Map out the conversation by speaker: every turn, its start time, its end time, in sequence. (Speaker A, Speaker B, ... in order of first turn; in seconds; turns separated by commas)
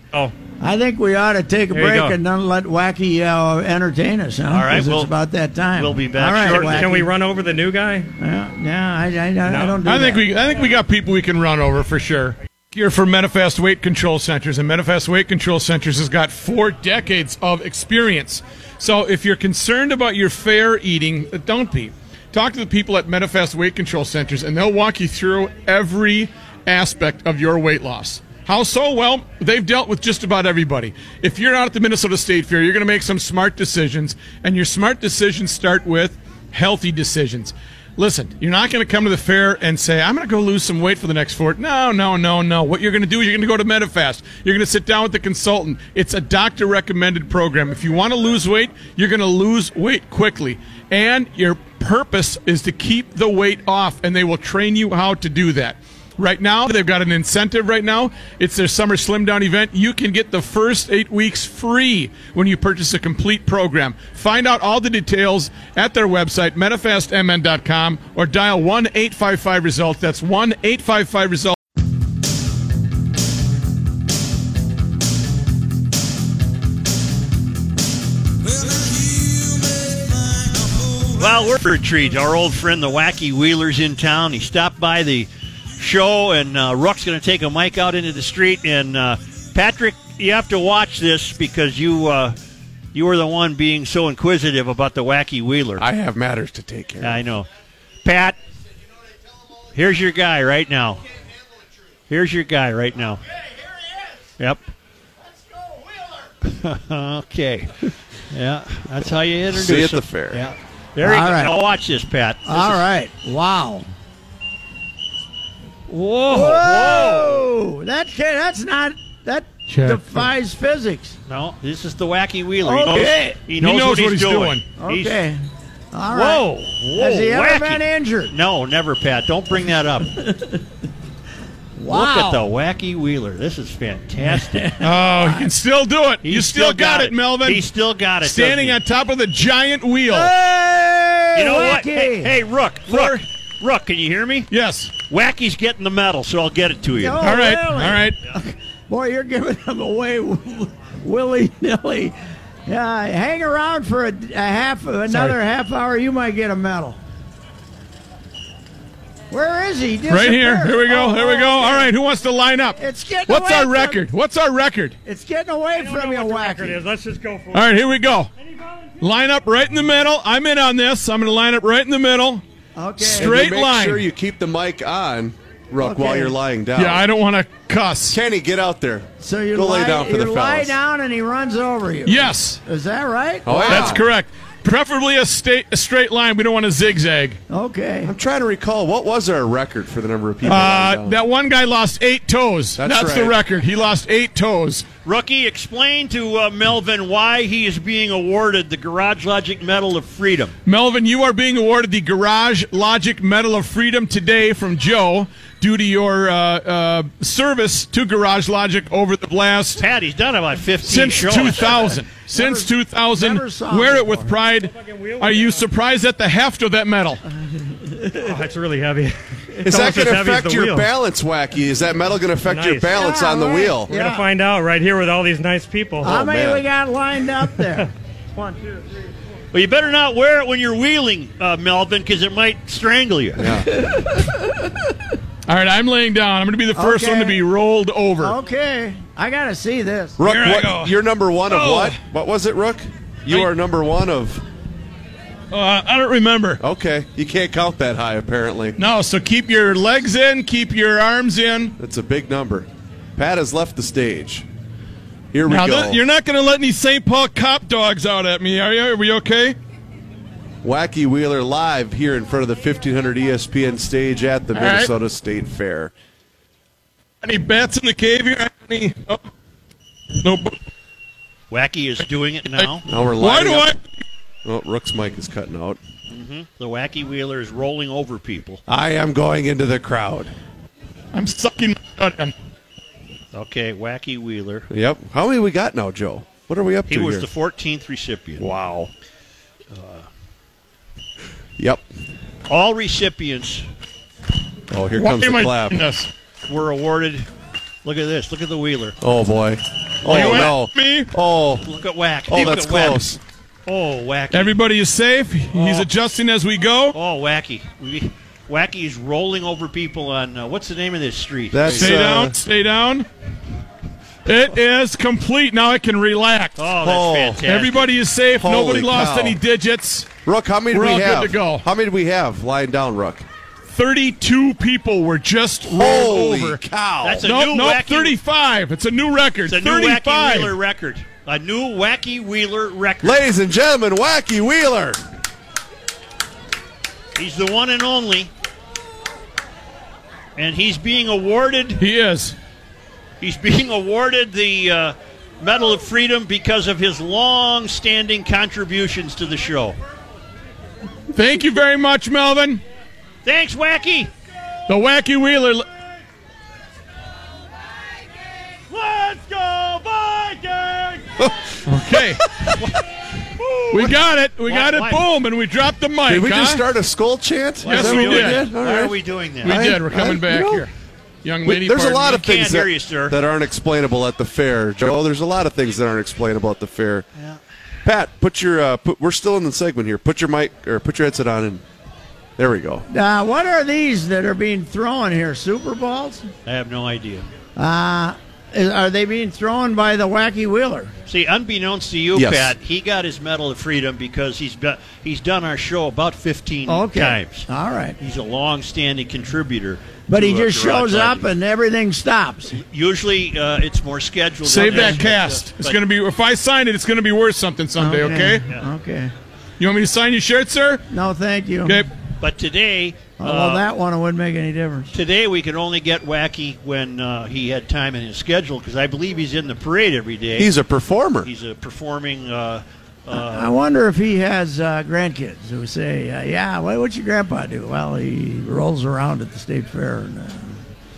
Speaker A: 0.6-7.1, Speaker B: 1.7-2.2, Speaker C: 4.5-5.1, Speaker C: 5.8-7.0, Speaker B: 6.4-8.1, Speaker A: 8.2-10.2, Speaker B: 9.4-9.8, Speaker D: 9.8-71.5, Speaker C: 81.1-92.4, Speaker C: 92.9-95.9, Speaker E: 95.8-97.2, Speaker C: 97.0-97.5, Speaker C: 98.0-98.4, Speaker C: 99.7-101.0, Speaker C: 102.1-103.2, Speaker C: 104.4-104.7, Speaker C: 106.4-112.8, Speaker E: 109.5-110.4, Speaker A: 111.0-111.6, Speaker A: 112.5-113.8, Speaker C: 115.9-117.5, Speaker A: 116.3-121.2, Speaker D: 119.7-120.3, Speaker C: 121.3-125.2, Speaker A: 122.6-123.4, Speaker D: 123.6-124.6, Speaker A: 124.8-125.4, Speaker A: 125.9-128.3, Speaker C: 126.1-130.1, Speaker A: 130.3-130.5, Speaker A: 131.8-132.4, Speaker C: 131.9-134.7, Speaker A: 134.3-135.5, Speaker D: 134.8-137.7, Speaker C: 136.2-138.8, Speaker D: 138.2-140.3, Speaker A: 140.1-142.3, Speaker C: 141.3-144.5, Speaker D: 142.9-143.2, Speaker D: 144.5-144.9, Speaker C: 145.1-147.2, Speaker A: 147.0-152.1, Speaker D: 147.2-148.2, Speaker A: 152.7-157.0, Speaker D: 155.1-155.4, Speaker A: 159.3-161.9, Speaker D: 160.1-164.9, Speaker A: 162.8-164.0, Speaker A: 165.1-166.8, Speaker B: 165.7-167.7, Speaker D: 167.5-168.3, Speaker B: 168.4-168.9, Speaker D: 169.0-172.4, Speaker A: 172.8-173.4, Speaker D: 173.0-174.1, Speaker E: 173.1-177.0, Speaker A: 175.8-176.4, Speaker D: 176.7-178.2, Speaker E: 178.1-180.7, Speaker A: 179.2-184.0, Speaker D: 182.1-182.6, Speaker E: 183.4-184.0, Speaker D: 183.6-187.4, Speaker A: 187.5-188.1, Speaker E: 188.1-191.2, Speaker D: 190.4-194.8, Speaker E: 192.8-193.3, Speaker C: 195.0-200.5, Speaker D: 200.7-209.8, Speaker C: 209.8-211.9, Speaker D: 210.8-217.2, Speaker A: 212.3-214.3, Speaker B: 214.7-215.6, Speaker A: 217.5-218.3, Speaker B: 218.2-220.9, Speaker E: 219.6-223.9, Speaker B: 222.4-223.1, Speaker A: 222.9-224.3, Speaker B: 223.9-226.2, Speaker E: 226.0-226.7, Speaker A: 226.0-227.9, Speaker B: 228.4-228.8, Speaker C: 229.5-233.6, Speaker E: 233.4-233.7, Speaker A: 233.8-234.2, Speaker D: 235.5-238.3, Speaker A: 236.7-237.4, Speaker A: 238.2-240.2, Speaker E: 240.2-244.4, Speaker D: 240.2-240.9, Speaker D: 241.5-241.9, Speaker D: 245.5-246.6, Speaker E: 246.6-248.8, Speaker D: 248.8-251.7, Speaker E: 251.8-254.4, Speaker E: 255.3-256.0, Speaker D: 255.4-259.6, Speaker E: 260.6-265.9, Speaker D: 264.5-264.9, Speaker D: 267.2-269.2, Speaker D: 270.2-270.6, Speaker C: 271.5-272.8, Speaker E: 272.9-273.8, Speaker D: 273.2-273.8, Speaker E: 274.4-275.8, Speaker C: 276.1-278.6, Speaker E: 278.7-280.3, Speaker D: 281.1-282.3, Speaker C: 283.3-284.7, Speaker E: 284.7-287.3, Speaker C: 286.9-288.5, Speaker C: 289.7-290.1, Speaker E: 291.6-291.8, Speaker C: 292.5-293.6, Speaker E: 294.7-295.8, Speaker D: 295.0-296.1, Speaker C: 296.5-297.3, Speaker C: 297.8-299.0, Speaker E: 299.0-301.7, Speaker D: 300.0-301.1, Speaker C: 300.1-300.4, Speaker C: 301.6-303.1, Speaker E: 302.3-303.2, Speaker C: 303.6-304.5, Speaker D: 304.3-306.9, Speaker C: 305.5-305.9, Speaker C: 306.9-311.9, Speaker E: 311.5-312.3, Speaker D: 311.6-313.1, Speaker D: 314.2-316.6, Speaker C: 316.6-317.9, Speaker E: 316.8-317.4, Speaker D: 317.4-320.1, Speaker E: 318.4-319.4, Speaker E: 320.2-323.2, Speaker D: 320.7-321.6, Speaker D: 323.7-326.6, Speaker E: 325.7-327.3, Speaker C: 327.0-328.2, Speaker D: 327.2-330.6, Speaker C: 329.5-333.2, Speaker E: 333.0-335.0, Speaker C: 337.1-338.3, Speaker C: 340.4-341.8, Speaker D: 341.8-342.4, Speaker C: 343.2-349.8, Speaker D: 351.1-352.6, Speaker C: 353.2-354.1, Speaker D: 354.7-355.6, Speaker C: 358.7-361.0, Speaker E: 361.2-362.5, Speaker D: 361.6-362.3, Speaker C: 363.4-363.9, Speaker D: 363.7-366.6, Speaker C: 364.4-365.0, Speaker E: 366.1-370.6, Speaker C: 367.6-369.6, Speaker D: 367.6-368.8, Speaker D: 369.4-370.7, Speaker D: 371.2-372.1, Speaker E: 371.4-377.0, Speaker C: 372.0-373.1, Speaker E: 377.8-381.6, Speaker E: 382.4-382.8, Speaker A: 382.9-386.3, Speaker C: 386.4-387.2, Speaker A: 387.6-390.9, Speaker C: 391.1-397.5, Speaker E: 392.1-392.5, Speaker A: 396.7-398.0, Speaker C: 398.0-401.3, Speaker A: 400.1-402.6, Speaker C: 402.5-405.8, Speaker D: 404.4-408.4, Speaker A: 404.6-405.0, Speaker A: 407.8-409.1, Speaker D: 409.6-410.8, Speaker A: 410.9-411.8, Speaker D: 411.6-411.9, Speaker C: 412.2-413.6, Speaker A: 413.2-414.9, Speaker C: 414.9-420.5, Speaker E: 420.4-421.3, Speaker C: 421.2-423.5, Speaker A: 423.1-430.6